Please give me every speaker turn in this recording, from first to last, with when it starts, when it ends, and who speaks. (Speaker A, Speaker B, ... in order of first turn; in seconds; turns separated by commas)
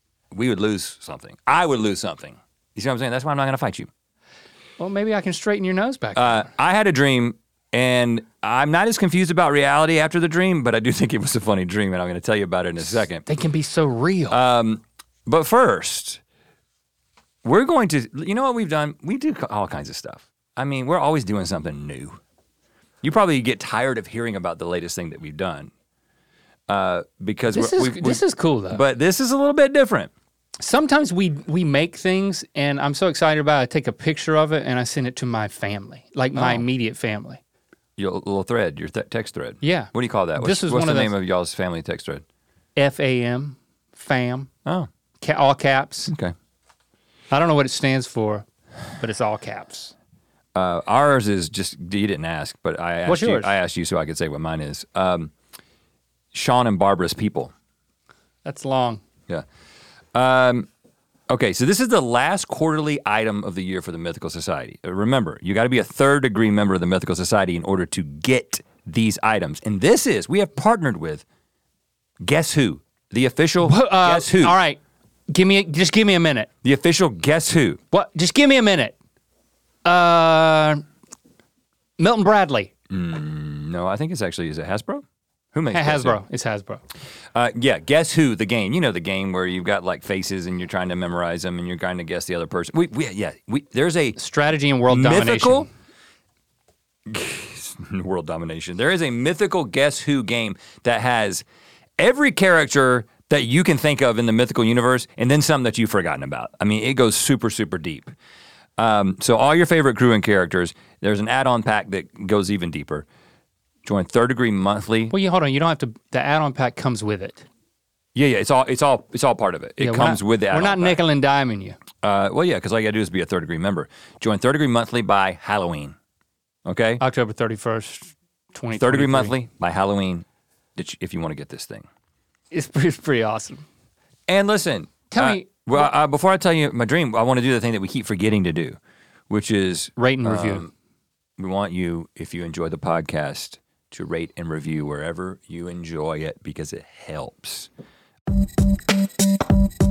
Speaker A: 0.3-3.9, Speaker B: 4.8-6.5, Speaker A: 6.1-13.2, Speaker B: 13.2-14.4, Speaker A: 14.3-16.2, Speaker A: 17.4-22.2, Speaker A: 23.0-25.7, Speaker A: 26.7-30.1, Speaker B: 27.5-28.8, Speaker B: 30.6-37.4, Speaker A: 36.3-36.6, Speaker A: 38.0-42.2, Speaker B: 39.6-41.1, Speaker B: 42.8-44.5, Speaker B: 45.2-46.1, Speaker A: 46.1-46.3, Speaker B: 47.3-48.5, Speaker B: 49.0-49.9, Speaker A: 50.5-55.3, Speaker B: 53.0-53.5, Speaker A: 56.3-57.5, Speaker B: 58.4-59.0, Speaker A: 60.1-60.7, Speaker A: 61.3-71.2, Speaker A: 72.2-74.6, Speaker B: 73.6-76.5, Speaker A: 76.6-77.8, Speaker B: 77.9-78.9, Speaker B: 79.8-80.8, Speaker B: 82.0-82.7, Speaker A: 82.9-86.2, Speaker B: 85.7-86.8, Speaker A: 87.3-94.2, Speaker B: 94.2-95.7, Speaker A: 94.9-95.7, Speaker A: 97.1-101.4, Speaker A: 102.0-108.1, Speaker A: 108.8-113.0, Speaker A: 113.8-115.1, Speaker B: 115.1-117.4, Speaker A: 118.1-121.0, Speaker B: 119.8-121.8, Speaker A: 122.0-125.9, Speaker A: 126.6-127.0, Speaker B: 127.0-129.3, Speaker A: 128.7-130.2, Speaker A: 130.8-131.8, Speaker B: 132.5-133.6, Speaker A: 134.3-138.8, Speaker B: 135.1-135.9, Speaker A: 139.3-140.7, Speaker B: 140.0-140.6, Speaker A: 141.4-147.7